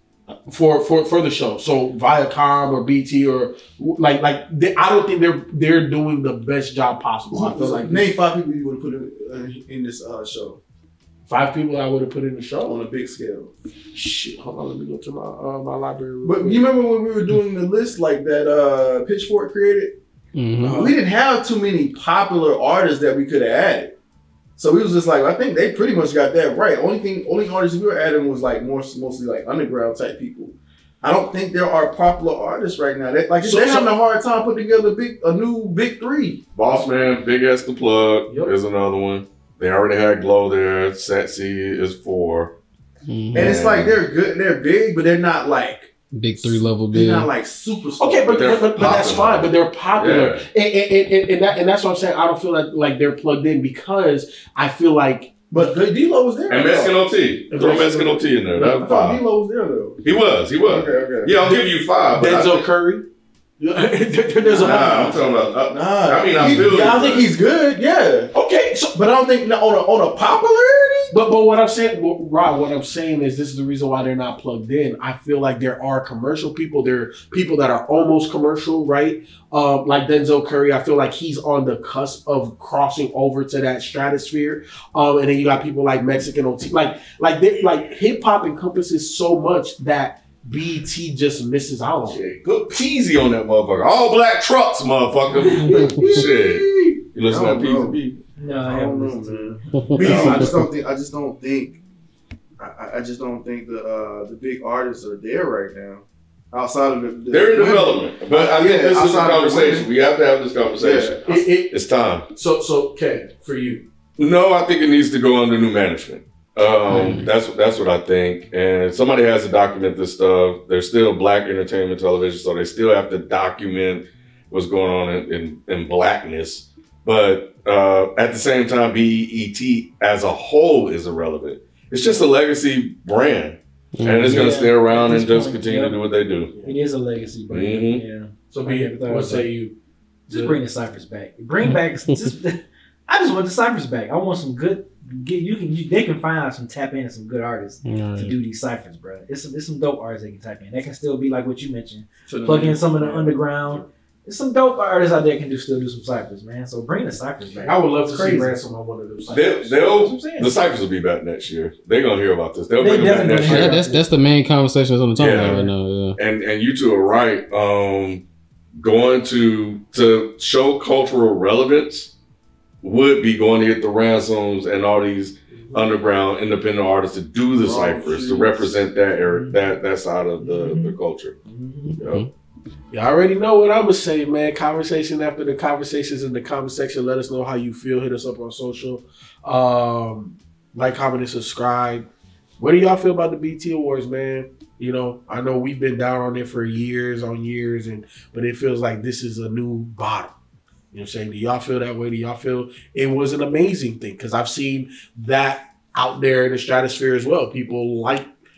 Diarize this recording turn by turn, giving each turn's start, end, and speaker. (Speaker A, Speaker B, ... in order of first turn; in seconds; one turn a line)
Speaker A: 0.5-8.1
Speaker B: 7.3-10.6
Speaker A: 11.3-12.8
Speaker B: 12.6-13.5
Speaker A: 13.9-16.6
Speaker B: 16.2-20.0
Speaker C: 20.4-20.9
Speaker A: 20.6-20.9
Speaker B: 20.6-23.9
Speaker B: 24.6-36.4
Speaker A: 33.4-34.0
Speaker D: 36.5-42.5
Speaker A: 38.3-38.5
Speaker C: 43.1-43.6
Speaker D: 43.3-44.0
Speaker B: 43.3-48.8
Speaker C: 46.1-47.3
Speaker A: 48.0-55.4
Speaker D: 48.3-50.4
Speaker B: 55.5-57.0
Speaker D: 56.5-59.2
Speaker A: 57.5-58.1
Speaker B: 57.5-60.0
Speaker D: 60.0-62.7
Speaker B: 60.6-61.4
Speaker A: 62.1-63.1
Speaker A: 63.6-65.2
Speaker B: 64.5-68.3
Speaker D: 64.6-67.3
Speaker A: 66.4-66.8
Speaker A: 68.3-69.0
Speaker B: 68.9-71.2
Speaker A: 71.1-92.2
Speaker D: 92.0-98.2
Speaker B: 95.5-98.0
Speaker E: 98.4-99.7
Speaker B: 98.5-101.8
Speaker D: 100.0-100.5
Speaker B: 102.6-109.9
Speaker D: 107.3-112.2
Speaker B: 110.8-111.2
Speaker A: 111.3-111.7
Speaker A: 112.3-113.9
Speaker D: 114.2-136.5
Speaker C: 116.9-117.3
Speaker C: 134.0-134.6
Speaker E: 134.2-136.0
Speaker E: 136.6-139.5
Speaker D: 137.5-138.0
Speaker A: 138.5-139.8
Speaker A: 140.3-140.6
Speaker E: 140.3-158.6
Speaker C: 147.8-148.4
Speaker A: 152.3-153.4
Speaker A: 157.6-159.7
Speaker D: 159.3-163.8
Speaker E: 159.7-160.5
Speaker E: 162.8-164.1
Speaker C: 163.4-166.2
Speaker D: 165.2-168.2
Speaker E: 165.3-165.7
Speaker D: 168.8-172.1
Speaker D: 172.8-181.3
Speaker B: 177.6-178.9
Speaker E: 179.3-179.6
Speaker E: 180.4-182.0
Speaker C: 182.0-182.3
Speaker A: 182.9-192.1
Speaker A: 192.6-200.3
Speaker A: 200.9-208.3